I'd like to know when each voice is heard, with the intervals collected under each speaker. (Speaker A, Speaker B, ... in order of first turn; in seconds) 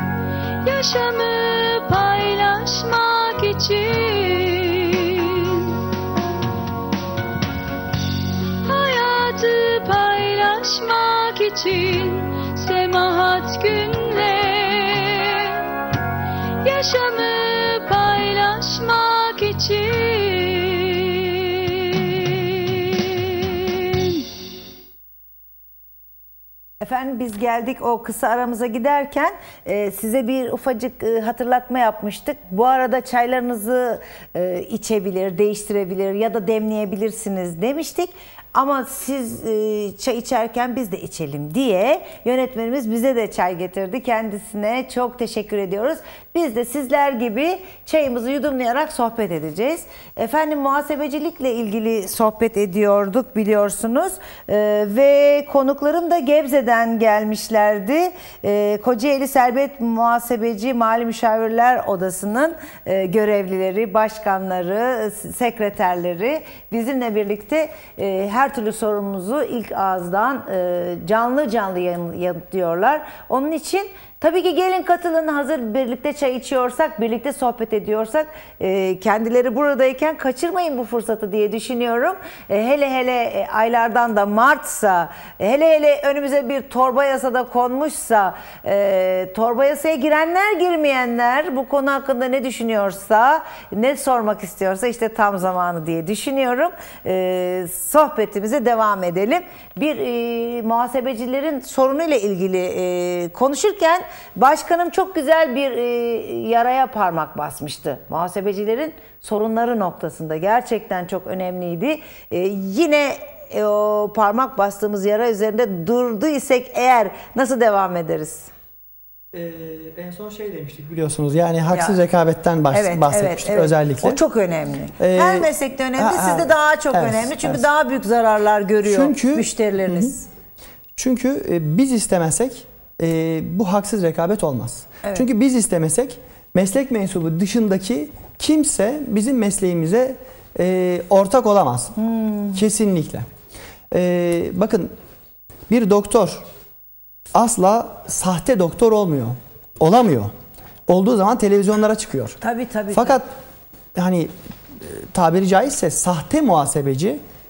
Speaker A: 0.6-5.8, 8.6-16.0, 16.6-24.2
Speaker B: 26.8-118.5, 121.7-122.0, 122.7-130.2, 142.0-142.6, 152.4-153.2
Speaker C: 119.3-124.2, 125.0-127.6, 128.8-130.1, 130.9-141.9, 142.5-143.2, 143.9-144.9, 145.7-146.4, 147.3-150.3, 150.9-152.4, 152.9-153.3, 153.9-157.2